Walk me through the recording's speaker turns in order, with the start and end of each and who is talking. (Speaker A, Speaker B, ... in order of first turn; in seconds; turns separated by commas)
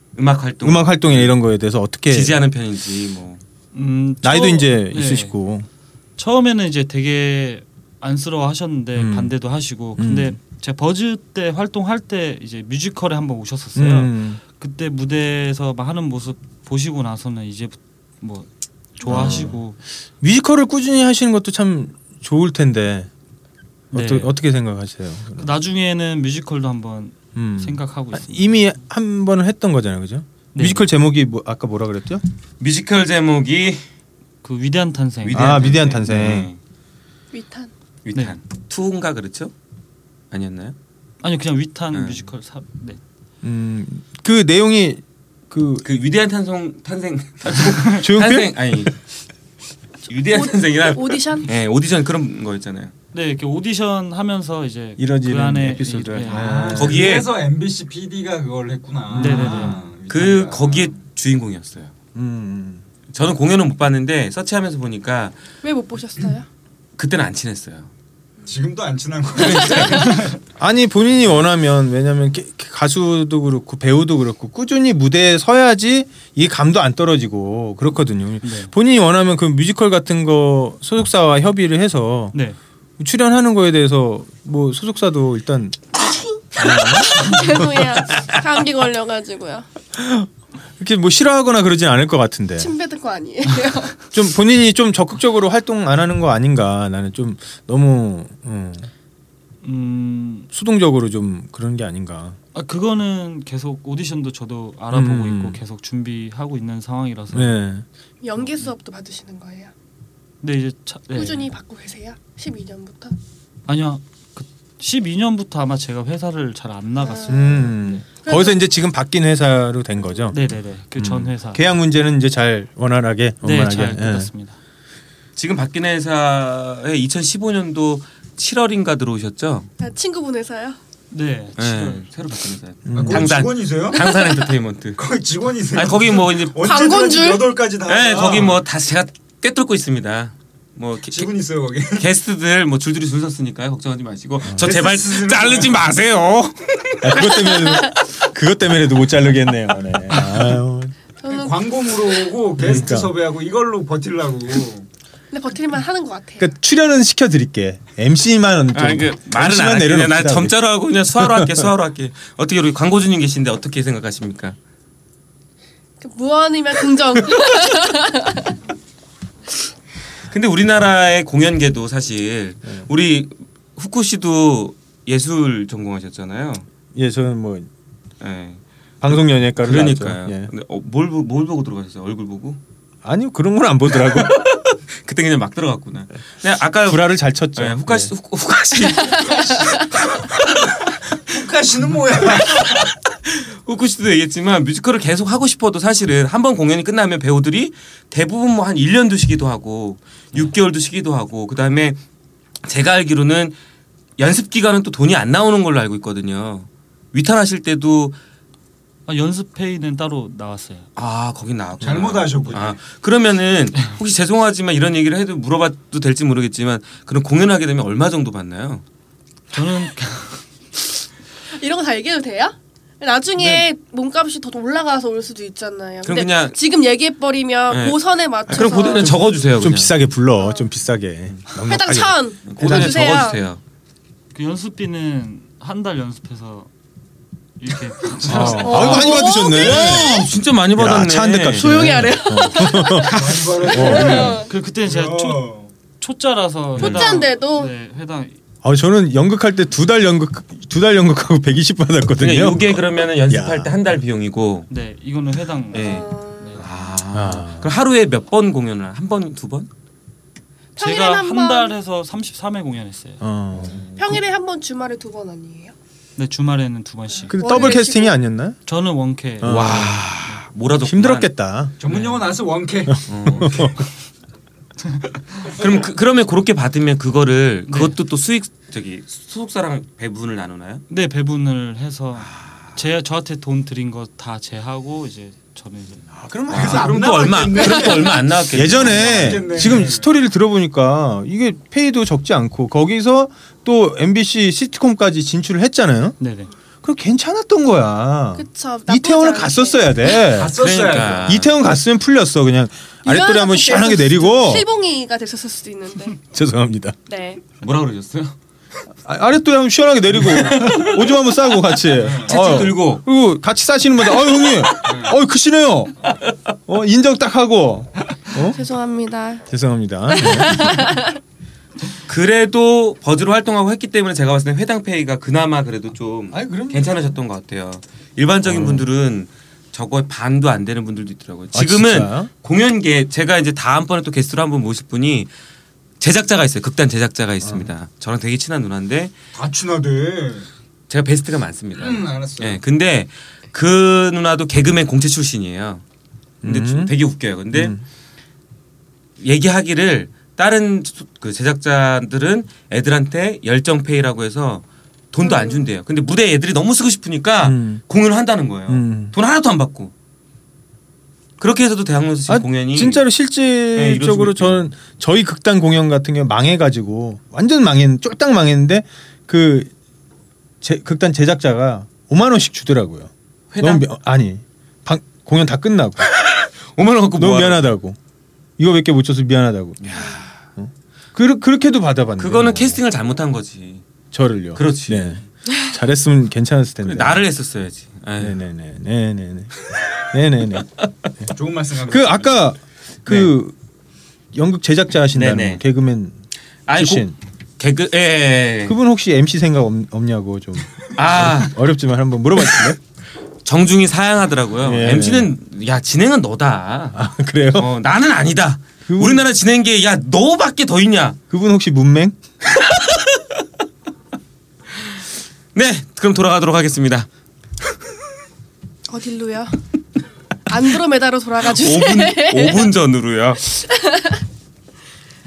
Speaker A: 0.2-1.3, Speaker B: 0.6-2.4, Speaker A: 2.1-3.4, Speaker C: 3.7-5.3, Speaker B: 4.2-5.7, Speaker C: 6.2-19.8, Speaker B: 9.0-9.3, Speaker B: 10.0-10.4, Speaker B: 13.8-14.4, Speaker B: 19.1-19.6, Speaker B: 20.2-23.1, Speaker C: 23.9-24.3, Speaker B: 23.9-25.5, Speaker C: 25.4-28.5, Speaker B: 27.4-32.2, Speaker C: 30.6-30.9, Speaker A: 32.6-33.8, Speaker C: 34.4-36.0, Speaker A: 35.2-36.6, Speaker B: 35.3-36.5, Speaker D: 37.3-37.7, Speaker A: 38.0-39.5, Speaker A: 40.3-40.8, Speaker C: 41.2-43.0, Speaker A: 41.9-42.2, Speaker B: 43.4-45.9, Speaker A: 45.8-48.9, Speaker C: 47.6-48.0, Speaker B: 48.0-48.6, Speaker A: 50.1-52.9, Speaker D: 50.3-51.5, Speaker C: 53.1-56.7, Speaker B: 55.0-57.0, Speaker E: 56.3-61.0, Speaker A: 56.8-57.3, Speaker B: 59.1-59.8, Speaker C: 59.1-59.8, Speaker A: 60.1-61.9, Speaker B: 62.1-62.8, Speaker A: 63.1-65.3, Speaker D: 65.6-66.5, Speaker A: 67.0-67.9, Speaker E: 68.5-70.4, Speaker A: 69.4-70.2, Speaker B: 70.6-82.3, Speaker C: 78.4-78.7, Speaker B: 83.0-85.8, Speaker B: 86.6-88.3, Speaker D: 86.6-89.7, Speaker B: 90.0-90.3, Speaker B: 90.8-92.7, Speaker D: 92.6-94.0, Speaker B: 94.1-98.9, Speaker C: 99.6-100.5, Speaker B: 100.5-102.4, Speaker C: 102.5-107.5, Speaker B: 104.9-105.6, Speaker B: 107.3-107.8, Speaker D: 108.2-109.7, Speaker C: 110.4-111.5, Speaker D: 111.1-113.2, Speaker C: 113.7-118.0, Speaker D: 117.0-117.7, Speaker B: 117.3-120.4, Speaker D: 118.2-118.6, Speaker C: 120.3-121.6, Speaker B: 121.0-124.3, Speaker C: 123.4-124.6, Speaker A: 125.4-129.7, Speaker D: 129.8-130.8, Speaker C: 131.1-132.1, Speaker A: 131.6-135.0, Speaker B: 132.9-133.4, Speaker E: 133.0-134.0, Speaker D: 133.9-134.4, Speaker E: 135.0-138.6, Speaker A: 135.7-136.6, Speaker D: 136.6-137.6, Speaker A: 137.9-141.3, Speaker E: 141.1-142.1, Speaker A: 141.9-147.5, Speaker E: 144.6-145.8, Speaker B: 147.0-150.9, Speaker D: 151.2-151.6, Speaker E: 151.3-154.9, Speaker B: 152.6-153.1, Speaker D: 155.3-156.5, Speaker B: 156.4-160.6, Speaker A: 158.7-164.6, Speaker B: 161.2-161.7, Speaker D: 166.0-168.6, Speaker A: 170.3-176.7, Speaker B: 176.9-177.7, Speaker A: 178.2-182.6, Speaker B: 179.0-180.5, Speaker B: 183.0-184.4, Speaker A: 184.0-190.5, Speaker B: 186.8-188.1, Speaker E: 191.3-192.8, Speaker A: 192.3-202.0, Speaker A: 202.6-203.6, Speaker A: 204.2-208.2, Speaker C: 209.1-210.9, Speaker A: 211.0-218.8, Speaker E: 211.8-212.8, Speaker C: 219.5-220.4, Speaker D: 221.6-229.4, Speaker C: 223.4-223.7, Speaker A: 226.1-226.6, Speaker A: 227.7-229.9, Speaker B: 229.6-233.1, Speaker D: 230.4-230.7, Speaker D: 231.7-233.4, Speaker A: 232.5-233.6, Speaker C: 234.3-236.7, Speaker C: 237.6-239.3, Speaker B: 238.3-240.2, Speaker D: 238.6-240.3, Speaker A: 239.4-241.7, Speaker B: 240.8-244.4, Speaker D: 241.6-244.5, Speaker E: 243.1-245.7, Speaker C: 244.4-245.5, Speaker C: 246.0-248.3, Speaker A: 246.8-247.1, Speaker D: 246.8-247.7, Speaker B: 248.6-253.7, Speaker A: 252.2-254.7, Speaker C: 254.7-256.6, Speaker D: 255.7-256.6, Speaker A: 255.7-259.7, Speaker B: 257.1-257.7, Speaker D: 260.8-261.8, Speaker C: 260.8-263.2, Speaker B: 263.2-263.8, Speaker D: 264.0-265.7, Speaker C: 266.2-267.8, Speaker B: 267.3-268.6, Speaker D: 267.4-268.2, Speaker C: 268.7-270.4, Speaker B: 269.4-271.7, Speaker A: 269.4-271.3, Speaker E: 271.8-273.7, Speaker C: 271.9-272.3, Speaker B: 272.9-273.8, Speaker A: 273.1-273.6, Speaker A: 275.6-280.9, Speaker C: 277.7-278.0, Speaker C: 280.9-286.1, Speaker A: 282.2-282.8, Speaker B: 286.1-287.3, Speaker A: 286.5-289.5, Speaker E: 286.5-290.1, Speaker B: 288.5-296.2, Speaker C: 296.2-296.5, Speaker B: 296.8-300.7, Speaker D: 298.4-300.1, Speaker E: 300.3-301.4, Speaker A: 300.6-301.6, Speaker B: 301.3-304.7, Speaker D: 303.1-306.2, Speaker B: 306.3-306.9, Speaker D: 307.1-307.4, Speaker A: 307.6-308.4, Speaker B: 309.1-315.9, Speaker A: 310.5-310.9, Speaker E: 312.0-312.6, Speaker A: 312.2-313.0, Speaker E: 314.9-315.2, Speaker B: 316.7-318.6, Speaker D: 318.5-319.5, Speaker B: 319.5-321.0, Speaker D: 320.1-321.2, Speaker A: 322.1-335.3, Speaker B: 326.3-327.0, Speaker B: 328.4-328.9, Speaker B: 331.5-332.3, Speaker A: 336.0-339.1, Speaker B: 337.4-337.7, Speaker E: 339.4-340.5, Speaker A: 340.9-345.8, Speaker E: 341.8-342.6, Speaker B: 346.4-346.9, Speaker A: 346.4-347.8, Speaker B: 347.5-347.8, Speaker A: 349.2-359.9, Speaker D: 355.2-355.7, Speaker B: 357.4-357.8, Speaker B: 358.7-359.1, Speaker A: 361.4-363.1, Speaker B: 362.3-369.7, Speaker A: 363.8-364.7, Speaker B: 370.6-376.1, Speaker A: 373.5-373.9, Speaker A: 376.3-377.6, Speaker B: 377.2-378.0, Speaker B: 378.6-382.8, Speaker A: 379.8-380.3, Speaker A: 382.2-383.8, Speaker B: 384.1-387.2, Speaker A: 384.6-385.2, Speaker A: 386.8-388.4, Speaker B: 388.2-389.5, Speaker B: 390.1-391.3, Speaker E: 391.3-392.5, Speaker B: 391.9-393.6, Speaker B: 394.3-396.1, Speaker A: 395.1-395.6, Speaker A: 396.7-398.8, Speaker B: 396.7-397.1, Speaker B: 398.7-402.8, Speaker A: 401.0-401.6, Speaker A: 403.4-407.0, Speaker B: 404.6-405.3, Speaker B: 406.9-407.7, Speaker A: 407.5-411.2, Speaker B: 408.9-409.3, Speaker B: 411.3-412.2, Speaker A: 412.6-413.2, Speaker A: 415.6-417.1, Speaker D: 418.9-419.6, Speaker D: 420.5-422.7, Speaker A: 421.4-423.4, Speaker D: 423.4-424.2